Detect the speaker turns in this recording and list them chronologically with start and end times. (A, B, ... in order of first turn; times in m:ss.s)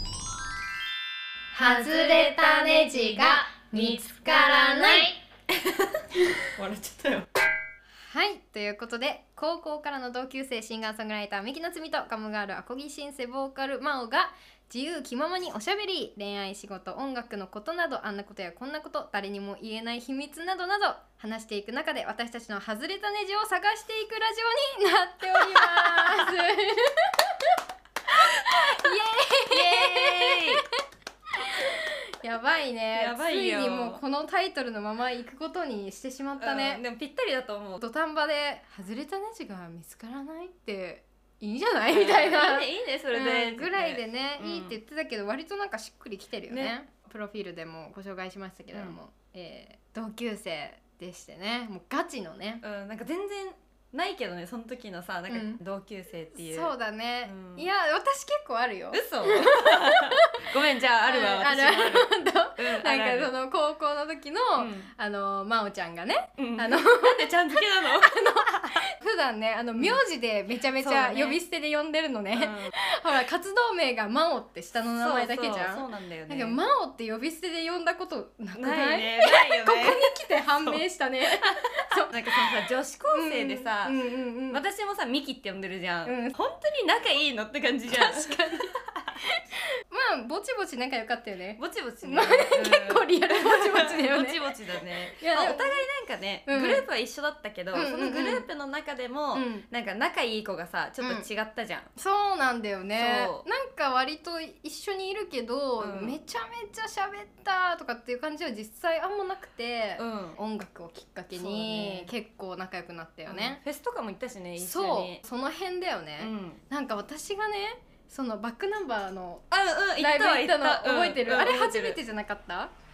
0:01.5-0:05.2 A
0:06.5-0:07.3 B
0:08.0-0:27.5 A
0:25.6-0:26.1 B
0:28.2-0:30.7 A
0:28.5-0:28.8 B
0:29.5-0:30.6 B
0:31.4-0:36.8 A
0:32.9-0:34.0 B
0:36.4-0:37.8 B
0:37.8-0:52.6 A
0:41.9-0:44.8 B
0:46.5-0:46.8 B
0:48.7-0:49.0 B
0:52.6-0:56.7 B
0:55.3-0:55.6 A
0:56.3-1:00.5 A
0:57.2-0:57.7 B
0:58.9-1:03.3 B
1:01.0-1:22.5 A
1:04.6-1:04.9 B
1:06.4-1:08.8 B
1:09.8-1:10.0 B
1:10.8-1:11.4 B
1:12.3-1:12.8 B
1:15.0-1:16.6 B
1:18.6-1:24.0 B
1:23.1-1:24.6 A
1:24.5-1:28.4 B
1:26.1-1:26.4 A
1:27.9-1:35.8 A
1:31.6-1:41.9 B
1:36.5-1:36.9 A
1:37.7-1:38.5 A
1:39.3-1:39.6 A
1:41.0-1:41.3 A
1:42.0-1:53.6 A
1:43.0-1:43.4 B
1:45.8-1:46.2 B
1:50.0-1:50.4 B
1:51.3-1:52.1 B
1:53.3-1:55.2 B
1:54.6-2:02.7 A
1:56.2-1:56.6 B
1:59.5-2:02.0 B